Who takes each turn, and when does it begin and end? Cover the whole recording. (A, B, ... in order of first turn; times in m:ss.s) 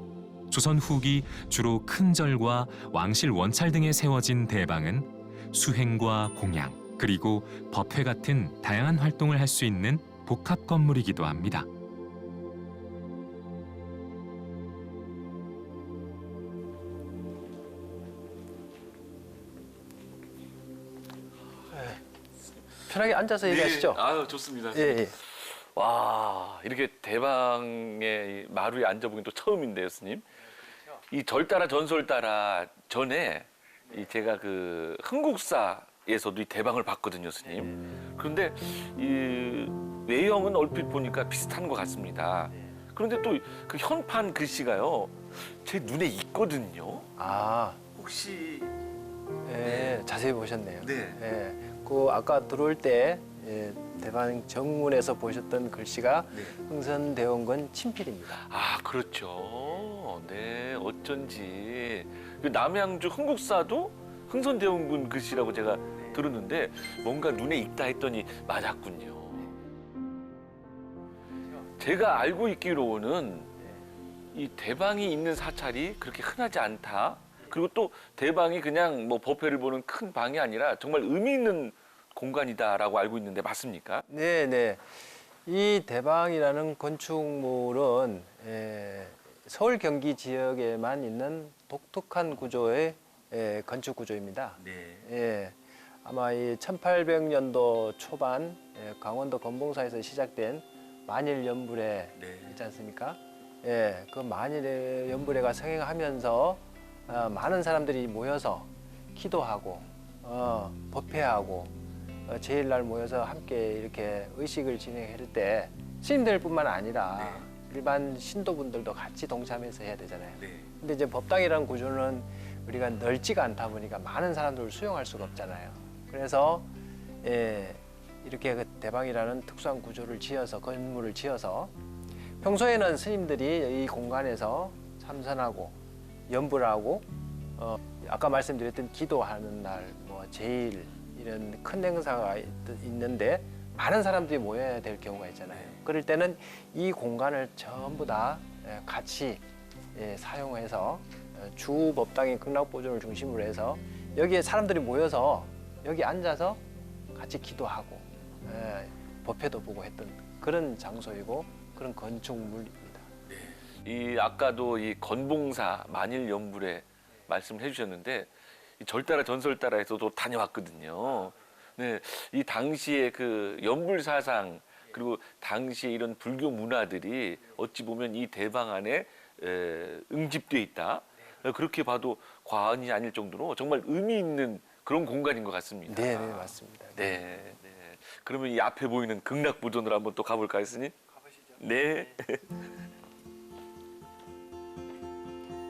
0:00.5-0:11.7 A
0:21.7-0:22.0 B
0:22.9-0:24.0 B
0:23.4-0:30.3 C
0:24.7-0:25.2 B
0:31.0-0:47.1 C
0:47.2-0:47.8 B
0:48.0-0:48.7 C
0:49.5-0:58.4 B
0:49.6-0:50.0 C
0:50.8-0:51.2 C
0:58.3-1:09.5 C
1:11.8-1:13.5 C
1:14.3-1:24.1 C
1:24.1-1:51.7 B
1:34.6-1:35.1 C
1:42.2-1:42.6 C
1:52.3-2:06.7 B
1:57.2-1:57.4 C
2:00.4-2:00.7 C
2:07.2-2:11.7 B
2:12.4-2:15.8 B
2:16.3-2:29.4 B
2:25.5-2:25.8 C
2:30.0-2:36.6 B
2:37.2-2:43.1 B
2:43.3-3:11.0 C
3:05.9-3:07.1 B
3:11.6-3:12.6 C